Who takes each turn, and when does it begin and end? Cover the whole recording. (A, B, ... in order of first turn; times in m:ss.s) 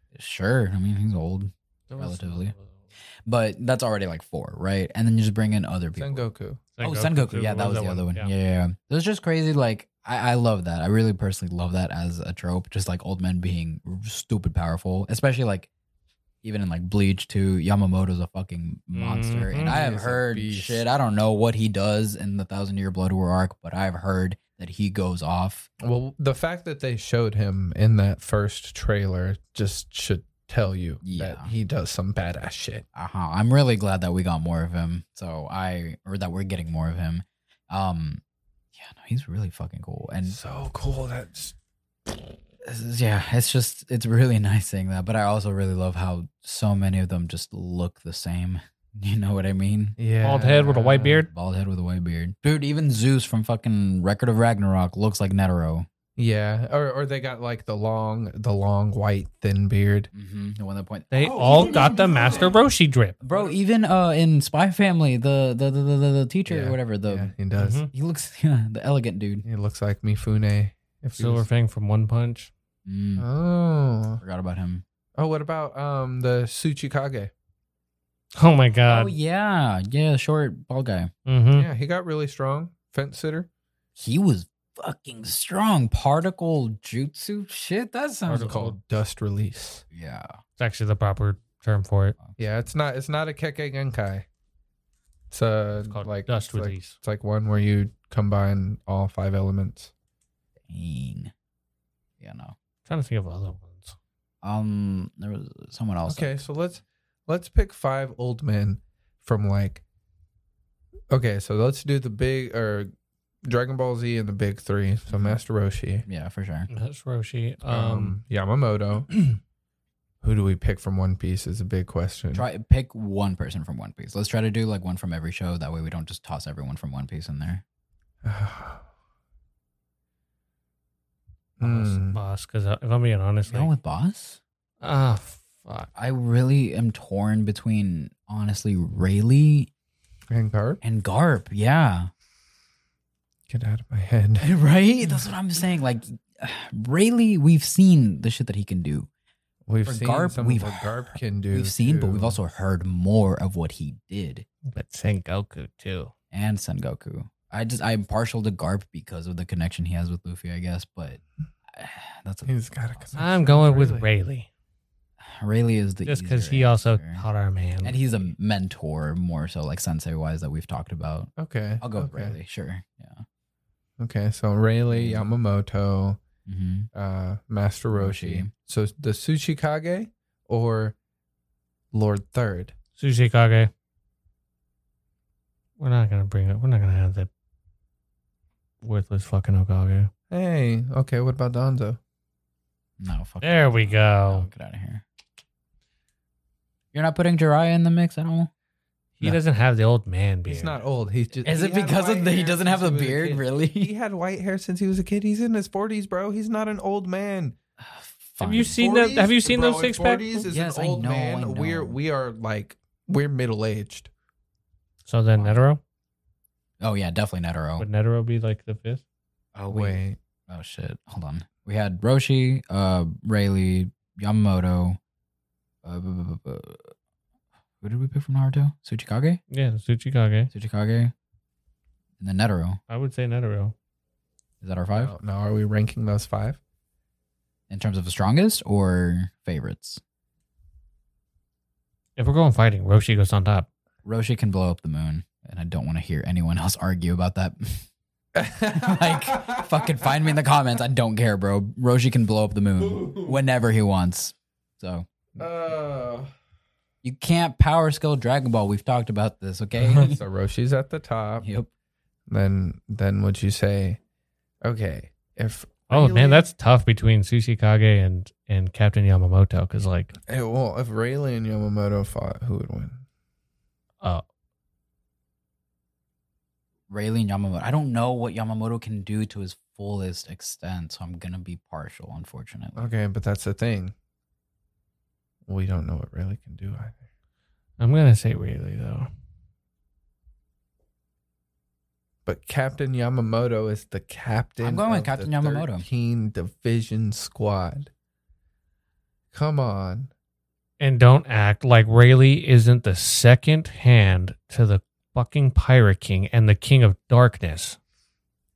0:00.1-0:02.6 A
0:01.9-0:02.8 B
0:03.2-0:06.2 A
0:06.0-0:06.7 C
0:06.8-0:08.3 B
0:06.8-0:15.7 A
0:16.4-0:25.7 A
0:18.9-0:19.8 B
0:19.6-0:20.8 C
0:25.8-0:32.8 C
0:31.0-0:31.5 A
0:32.9-0:38.2 A
0:38.8-0:40.4 A
0:40.2-0:41.6 C
0:42.6-0:50.0 A
0:50.0-0:51.2 C
0:50.2-0:51.3 B
0:51.2-0:55.9 A
0:56.2-1:00.1 C
1:00.1-1:02.5 A
1:01.1-1:03.2 B
1:01.2-1:02.6 C
1:03.2-1:07.3 A
1:03.3-1:03.6 C
1:06.5-1:07.9 C
1:07.6-1:07.9 B
1:07.9-1:09.5 A
1:09.4-1:11.5 C
1:11.1-1:12.5 B
1:12.9-1:13.3 A
1:13.2-1:14.2 C
1:14.2-1:14.8 A
1:15.2-1:17.3 C
1:18.4-1:19.1 B
1:18.9-1:21.1 A
1:21.3-1:21.7 B
1:21.5-1:23.5 C
1:24.0-1:28.6 A
1:28.3-1:28.8 B
1:28.4-1:29.8 C
1:29.9-1:30.4 A
1:30.6-1:32.2 B
1:32.4-1:34.3 C
1:35.3-1:39.9 C
1:35.9-1:37.0 B
1:40.7-1:41.3 A
1:42.2-1:42.6 A
1:42.9-1:44.0 B
1:44.4-1:46.4 A
1:46.1-1:49.8 C
1:51.1-1:52.9 C
1:53.5-1:56.1 C
1:55.1-1:55.4 A
1:56.1-1:56.7 A
1:56.7-1:58.2 B
1:57.7-1:59.2 C
2:00.2-2:02.5 C
2:02.3-2:07.6 A
2:08.2-2:08.8 C
2:11.6-2:12.2 C
2:11.7-2:13.7 B
2:13.5-2:14.4 A
2:14.8-2:15.9 B
2:16.0-2:19.7 A
2:20.3-2:20.8 C
2:20.8-2:22.1 A
2:23.5-2:24.5 C
2:24.4-2:29.1 A
2:29.7-2:32.4 C
2:29.8-2:34.5 A
2:34.7-2:36.1 B
2:36.3-2:43.1 A
2:42.4-2:44.1 C
2:43.2-2:44.5 B
2:45.2-2:47.2 A
2:46.1-2:48.0 B
2:47.8-2:53.2 A
2:51.4-2:52.4 C
2:54.0-2:56.2 C
2:54.9-2:55.3 A
2:56.5-2:56.9 A
2:56.9-3:01.0 C
2:57.9-2:58.5 A
3:01.9-3:02.8 C
3:03.0-3:03.7 B
3:05.8-3:07.3 B
3:08.8-3:10.1 B
3:10.3-3:12.0 C
3:13.0-3:15.0 A
3:13.4-3:14.5 B
3:16.9-3:18.5 A
3:19.2-3:20.8 B
3:20.5-3:27.6 C
3:21.4-3:23.9 A
3:27.8-3:28.8 A
3:28.4-3:30.4 B
3:28.7-3:34.1 C
3:30.4-3:32.0 A
3:35.0-3:35.8 B
3:35.4-3:35.6 A
3:36.8-3:37.9 A
3:37.8-3:39.0 B
3:39.6-3:45.0 A
3:39.7-3:40.2 C
3:45.8-3:46.9 A
3:47.8-3:49.4 A
3:49.5-3:50.5 B
3:50.5-3:51.1 A
3:52.2-3:52.8 A
3:52.9-3:53.7 B
3:54.6-3:55.2 A
3:54.9-3:56.6 C
3:57.7-4:00.0 A
4:02.2-4:03.7 B
4:04.0-4:07.9 A
4:08.4-4:10.3 C
4:08.7-4:15.1 A
4:12.8-4:13.4 C
4:15.4-4:16.3 C
4:17.0-4:20.2 A
4:19.8-4:21.5 C
4:21.4-4:21.7 A
4:22.3-4:24.0 C
4:24.6-4:26.5 C
4:25.9-4:30.1 B
4:30.3-4:33.0 C
4:36.9-4:42.9 A
4:42.8-4:44.0 C
4:45.5-4:47.0 C
4:47.8-4:49.1 B
4:52.3-4:57.9 C
4:54.6-4:55.8 A
4:59.3-5:00.1 C
5:00.8-5:07.8 B